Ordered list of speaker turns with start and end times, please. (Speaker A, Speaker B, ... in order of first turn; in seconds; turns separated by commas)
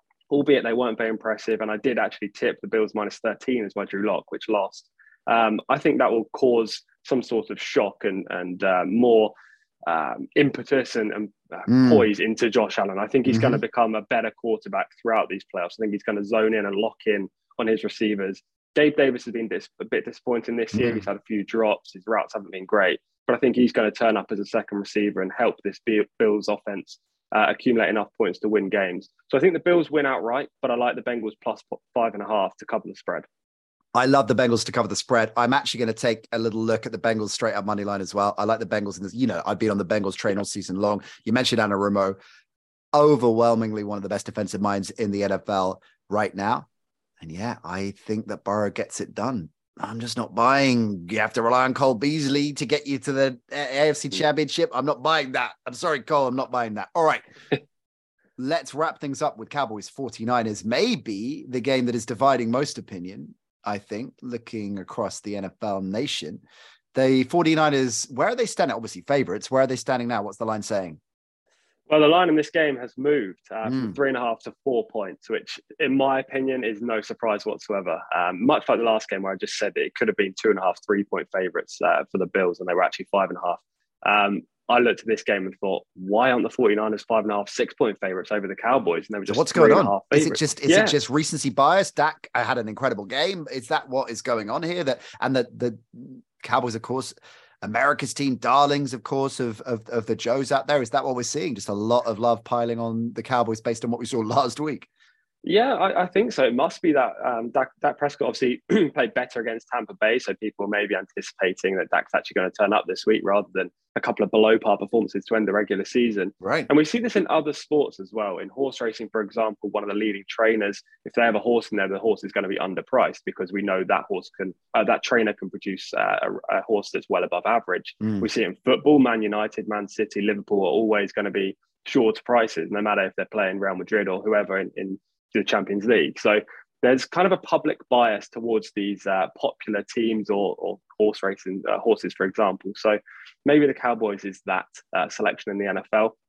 Speaker A: 0.3-9.3, Speaker A: 9.8-33.2, Speaker B: 11.7-12.1, Speaker B: 13.3-13.6, Speaker B: 20.7-21.1, Speaker B: 33.9-42.2, Speaker B: 42.9-46.7, Speaker B: 47.2-57.2, Speaker B: 58.4-66.4, Speaker B: 66.9-71.0, Speaker A: 71.9-91.0, Speaker B: 73.6-74.0, Speaker B: 89.3-104.9, Speaker A: 105.4-146.1, Speaker B: 116.4-116.7, Speaker B: 128.0-128.3